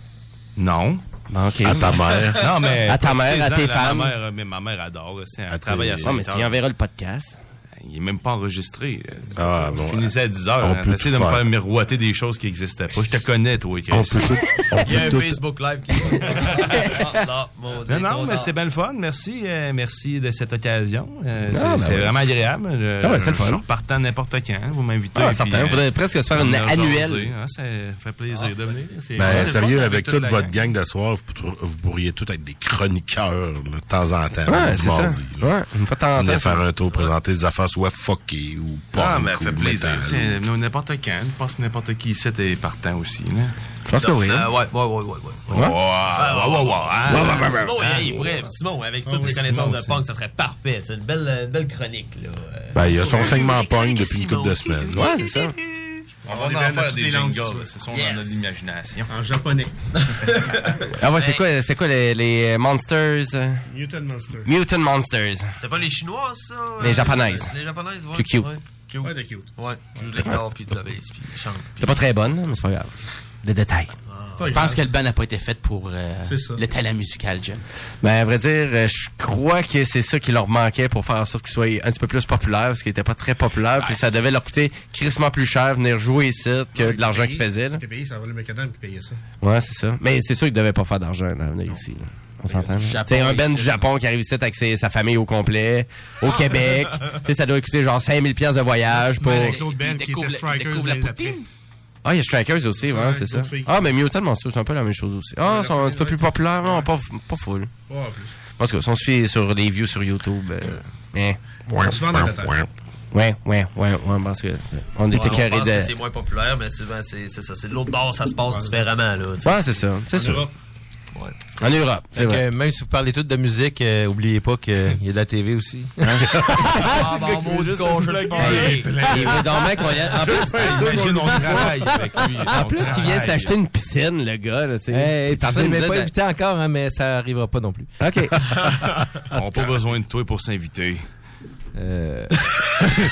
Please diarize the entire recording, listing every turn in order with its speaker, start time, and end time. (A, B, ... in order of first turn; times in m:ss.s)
0:00.6-0:01.0 A
0:01.3-0:02.0 B
0:01.6-0:02.6 C
0:02.3-0:06.5 A
0:02.9-0:04.1 B
0:05.5-0:06.5 C
0:06.0-0:07.4 B
0:07.8-0:14.3 A
0:09.3-0:11.4 C
0:13.9-0:15.4 C
0:14.8-0:18.5 D
0:16.4-0:16.8 A
0:17.9-0:30.5 A
0:21.5-0:22.2 B
0:23.0-0:23.6 B
0:25.1-0:27.3 B
0:29.1-0:35.5 C
0:34.5-0:36.6 B
0:36.1-0:40.3 C
0:39.0-0:43.5 A
0:43.9-0:44.5 B
0:44.0-0:56.0 D
0:45.5-0:48.0 A
0:47.1-0:47.8 B
0:49.0-0:49.5 E
0:49.1-0:50.0 A
0:52.7-0:55.1 C
0:54.9-0:55.5 B
0:56.2-0:57.8 E
0:56.2-0:59.1 A
0:57.9-0:58.4 D
0:59.1-0:59.8 E
1:00.0-1:01.4 D
1:00.9-1:03.6 B
1:03.7-1:04.5 E
1:04.4-1:05.5 B
1:05.6-1:12.0 D
1:06.8-1:07.5 B
1:08.1-1:08.5 B
1:09.0-1:09.5 E
1:11.8-1:13.9 B
1:14.1-1:14.5 D
1:14.4-1:14.8 E
1:14.5-1:17.6 F
1:16.2-1:16.6 E
1:18.0-1:27.8 B
1:23.8-1:24.0 F
1:26.7-1:29.2 E
1:29.4-1:39.6 B
1:32.6-1:33.8 F
1:38.9-1:41.4 E
1:39.6-1:41.4 F
1:42.0-1:47.7 B
1:42.8-1:43.9 E
1:45.4-1:46.9 E
1:47.9-1:48.3 E
1:48.6-1:51.4 B
1:51.7-1:52.6 C
1:51.8-1:52.6 E
1:53.1-1:55.9 B
1:55.1-1:59.7 D
1:58.5-1:58.8 E
1:59.4-2:00.4 B
2:00.1-2:00.5 E
2:01.6-2:02.4 B
2:02.1-2:09.1 G
2:06.0-2:06.3 B
2:06.8-2:10.1 D
2:08.1-2:08.9 E
2:08.4-2:09.4 A
2:09.0-2:11.1 B
2:10.2-2:13.5 A
2:10.8-2:11.7 E
2:10.8-2:11.9 C
2:12.5-2:16.1 B
2:14.9-2:17.9 G
2:18.0-2:18.4 B
2:18.5-2:19.0 D
2:19.3-2:21.0 A
2:21.7-2:23.0 G